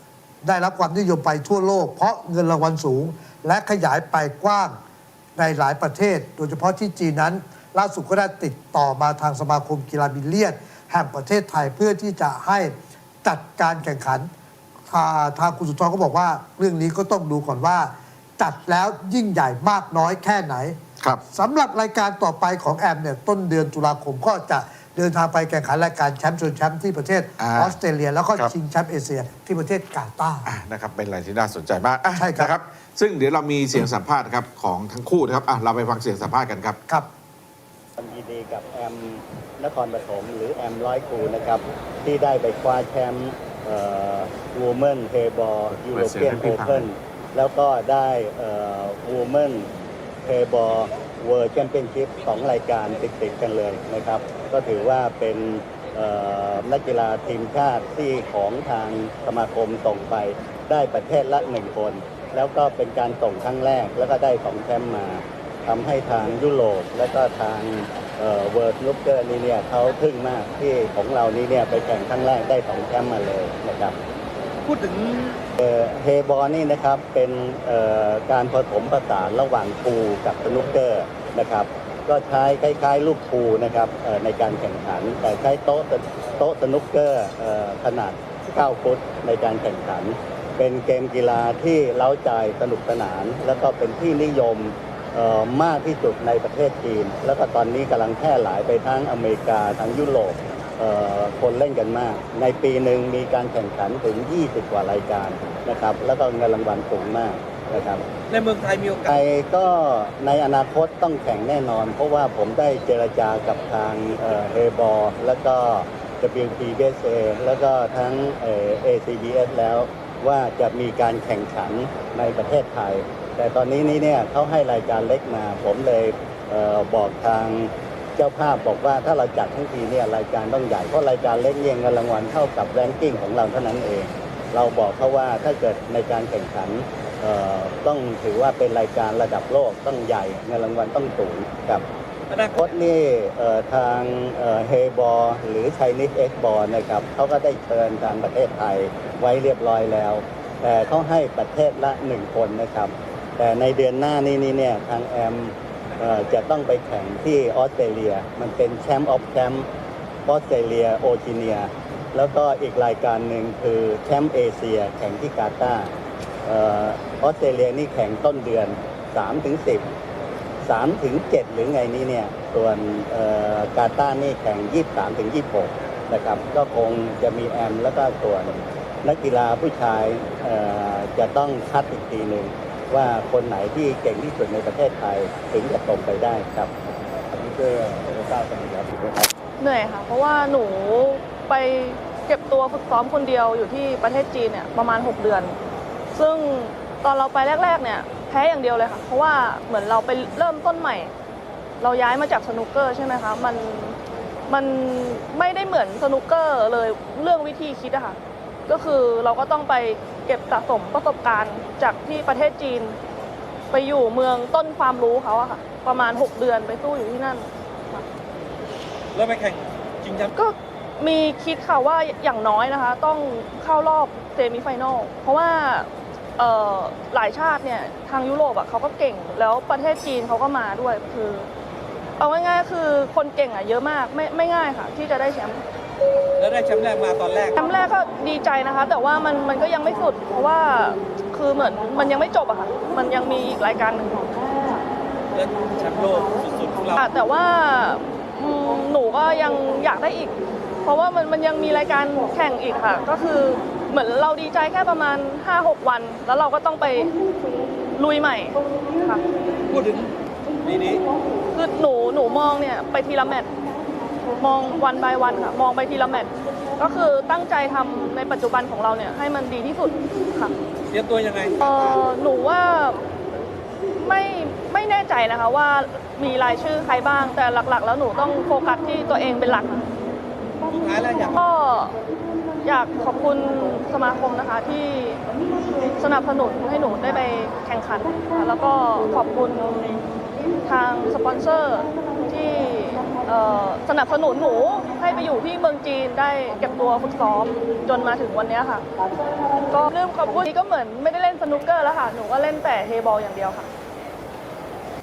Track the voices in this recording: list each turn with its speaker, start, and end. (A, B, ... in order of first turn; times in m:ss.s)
0:00.4-0:04.8 A
0:05.4-0:14.3 A
0:14.9-0:20.8 A
0:21.3-0:30.5 A
0:27.4-0:27.8 B
0:30.4-0:36.8 B
0:32.1-0:32.5 A
0:38.0-0:49.7 C
0:45.7-0:46.9 B
0:50.2-1:14.0 C
1:14.6-1:15.4 D
1:15.6-1:48.0 C
1:48.3-1:49.2 D
1:49.0-2:21.8 C
2:22.3-2:22.7 D
2:22.5-2:39.7 C
2:40.2-2:45.9 C
2:46.4-2:49.9 C
2:50.6-3:06.7 C
3:07.3-3:09.3 C
3:09.6-3:15.6 E
3:16.1-3:21.1 E
3:21.8-3:33.0 E
3:33.7-3:38.0 E
3:39.1-3:40.3 D
3:40.3-3:51.5 E
3:52.2-3:55.6 E
3:56.4-3:57.6 D
3:57.5-4:04.8 E
4:05.3-4:07.0 D
4:07.0-4:17.1 E
4:17.9-4:19.2 E
4:19.7-4:21.0 D
4:21.5-4:23.5 E
4:24.4-4:30.5 E
4:30.9-4:31.6 D
4:31.6-4:33.0 E
4:34.0-4:39.8 E
4:40.6-4:41.4 D
4:41.4-4:42.0 E
4:42.6-4:45.2 E
4:45.9-4:50.0 E
4:50.6-4:58.8 E
4:59.6-5:03.7 E